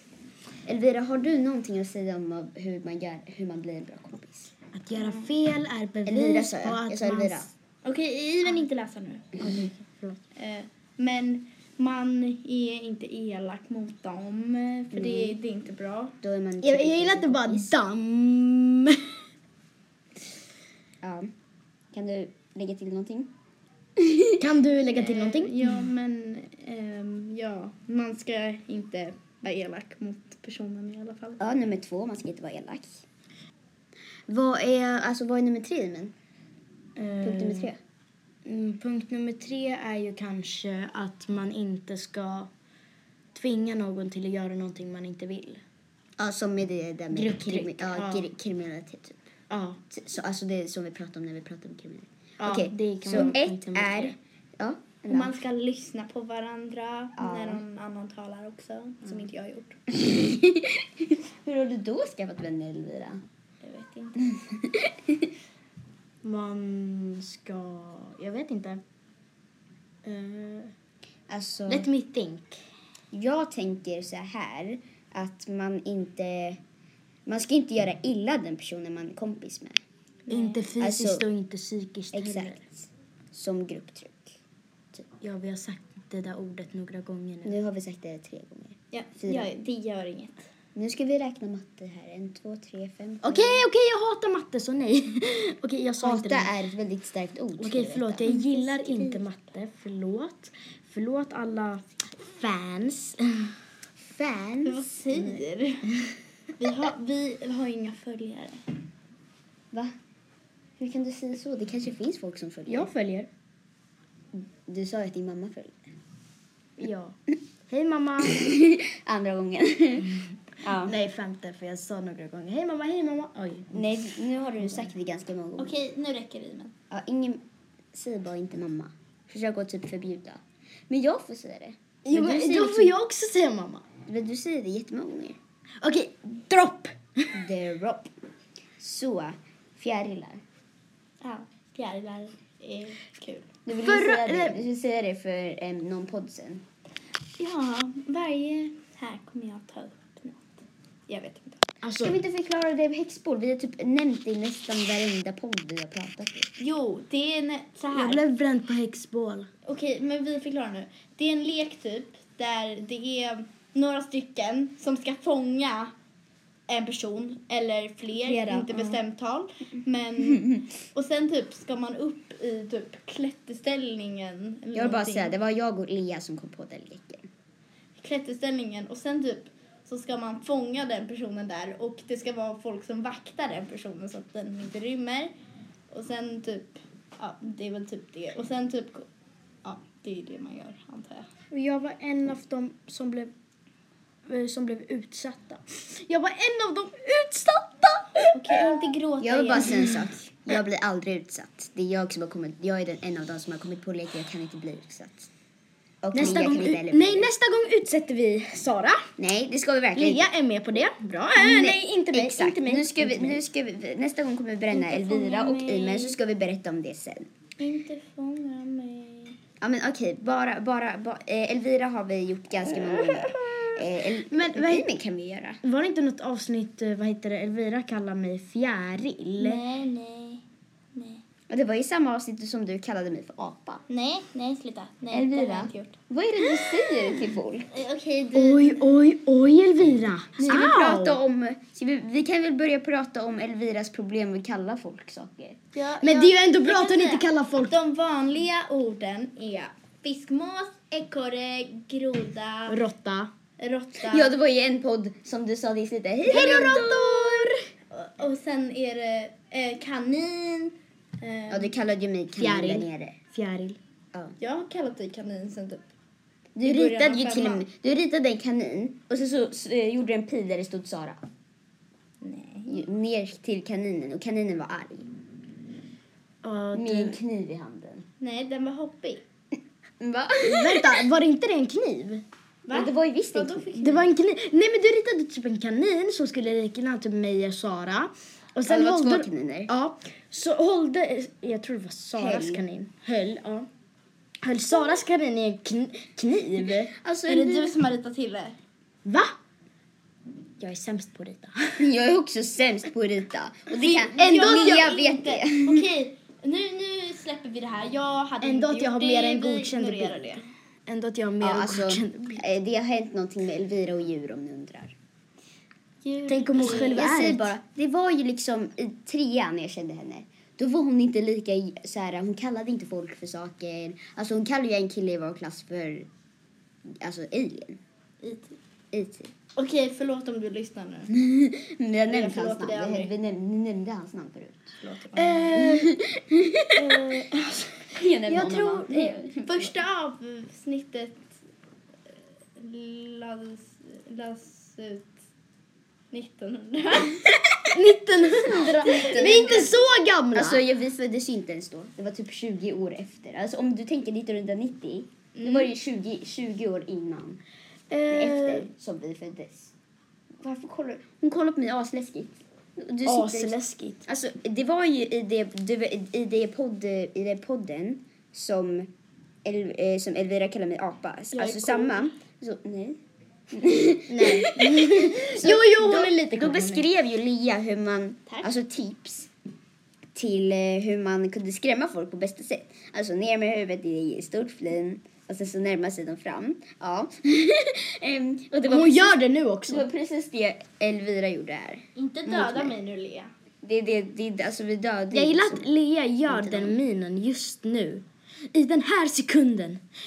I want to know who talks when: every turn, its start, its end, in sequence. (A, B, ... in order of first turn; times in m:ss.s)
0:00.7-0:04.5 A
0:04.7-0:07.5 B
0:05.0-0:05.3 C
0:06.1-0:07.5 A
0:07.8-0:09.3 C
0:09.4-0:10.2 B
0:10.4-0:16.2 C
0:14.9-0:15.4 A
0:16.2-0:17.7 A
0:16.6-0:19.1 B
0:21.0-0:21.3 A
0:21.9-0:23.3 A
0:24.0-0:24.4 A
0:24.4-0:25.8 B
0:24.9-0:31.4 C
0:31.4-0:33.0 A
0:34.3-0:36.1 A
0:37.0-0:37.7 B
0:37.2-0:37.8 A
0:38.5-0:42.5 B
0:43.3-0:45.6 B
0:46.2-0:49.2 A
0:47.1-0:48.3 B
0:49.5-0:49.8 B
0:49.9-0:55.4 A
0:52.4-0:54.2 B
0:55.1-0:59.8 C
0:57.2-0:57.6 A
0:59.9-1:03.2 A
1:03.6-1:04.2 C
1:04.2-1:05.3 A
1:06.2-1:08.8 B
1:10.0-1:10.7 B
1:11.3-1:11.9 A
1:11.7-1:12.6 B
1:13.1-1:16.6 A
1:17.3-1:19.8 A
1:20.3-1:20.7 C
1:20.3-1:22.6 B
1:20.8-1:21.2 A
1:22.1-1:24.4 A
1:25.1-1:27.6 B
1:27.4-1:29.5 A
1:28.9-1:30.4 C
1:30.8-1:33.6 A
1:33.2-1:36.5 B
1:36.0-1:38.3 A
1:37.6-1:43.5 B
1:38.3-1:39.1 C
1:44.0-1:45.4 A
1:44.6-1:45.9 C
1:46.6-1:48.6 C
1:50.8-1:52.9 A
1:52.7-1:53.3 B
1:54.3-1:55.9 A
1:56.8-1:57.2 B
1:57.7-1:58.5 B
1:58.3-2:01.0 A
2:00.7-2:03.8 B
2:03.7-2:05.8 A
2:05.6-2:06.8 C
2:06.9-2:13.0 A
2:12.1-2:13.9 B
2:14.1-2:15.4 A
2:15.8-2:17.4 B
2:17.3-2:18.1 A
2:18.8-2:20.4 A
2:21.2-2:23.5 C
2:23.7-2:26.6 A
2:23.8-2:24.6 B
2:27.4-2:30.5 C
2:31.1-2:31.6 C
2:31.8-2:32.2 B
2:32.0-2:36.5 A
2:36.6-2:38.2 C
2:37.9-2:39.5 B
2:39.6-2:45.9 C
2:46.7-2:55.3 C
2:48.3-2:48.8 A
2:54.7-2:57.3 A
2:58.0-3:05.3 C
3:05.9-3:09.1 C
3:09.6-3:11.3 C
3:11.5-3:13.3 B
3:14.3-3:18.7 B
3:18.3-3:20.1 C
3:19.2-3:25.3 A
3:26.0-3:27.3 A
3:26.1-3:29.1 B
3:29.2-3:30.3 A
3:30.0-3:33.4 B
3:31.4-3:37.3 A
3:34.7-3:36.1 C
3:37.6-3:39.4 C
3:39.6-3:45.6 A
3:43.4-3:43.7 B
3:44.3-3:44.9 B
3:45.6-3:49.6 B
3:49.4-3:50.4 C
3:51.0-3:51.2 C
3:51.5-3:53.8 A
3:53.9-3:58.9 C
3:55.1-3:57.7 A
3:58.3-4:01.2 B
4:00.4-4:05.6 A
4:05.8-4:12.8 C
4:06.0-4:07.8 B
4:12.7-4:13.3 B
4:13.6-4:14.3 C
4:14.0-4:17.5 A
4:16.3-4:17.5 B
4:16.4-4:17.4 C
4:17.9-4:21.7 C
4:21.5-4:23.2 A
4:22.4-4:23.8 B
4:24.4-4:25.8 C
4:26.6-4:31.2 A
4:26.6-4:27.6 C
4:32.2-4:32.8 C
4:32.7-4:35.1 A
4:36.4-4:37.2 B
4:36.7-4:38.1 A
4:38.2-4:39.2 C
4:40.0-4:41.0 A
4:40.4-4:42.2 B
4:42.7-4:44.0 C
4:42.7-4:44.0 A
4:43.8-4:53.7 B
4:48.7-4:49.7 A
4:52.2-4:52.6 A
4:54.4-4:56.9 B
4:56.9-4:57.8 A
4:57.3-4:58.6 C
4:59.1-4:59.3 B
5:00.6-5:01.9 B
5:01.8-5:05.9 A
5:03.8-5:10.4 C
5:04.3-5:04.8 B
5:08.4-5:12.4 B
5:11.4-5:15.0 A
5:16.0-5:17.0 C
5:16.3-5:17.5 B
5:16.6-5:26.1 A
5:26.9-5:27.8 A
5:28.2-5:28.6 C
5:28.9-5:29.3 A
5:29.6-5:31.2 C
5:31.1-5:34.8 A
5:32.1-5:33.1 C
5:34.8-5:35.5 C
5:35.1-5:36.0 B
5:35.5-5:37.2 A
5:36.8-5:39.3 B
5:37.9-5:39.7 A
5:39.4-5:41.3 C
5:42.6-5:45.1 C
5:46.1-5:47.3 C
5:47.7-5:50.6 B
5:48.5-5:49.8 A
5:48.5-5:49.6 C
5:50.3-5:57.4 A
5:55.4-5:55.7 C
5:57.9-5:58.7 B
5:58.1-5:59.7 A
6:00.4-6:08.9 A
6:03.0-6:04.0 B
6:09.4-6:19.3 A
6:11.3-6:12.0 B
6:14.1-6:16.8 B
6:20.1-6:32.8 A
6:28.7-6:29.9 B
6:32.0-6:33.3 C
6:33.6-6:35.6 A
6:35.1-6:39.8 B
6:36.3-6:36.8 A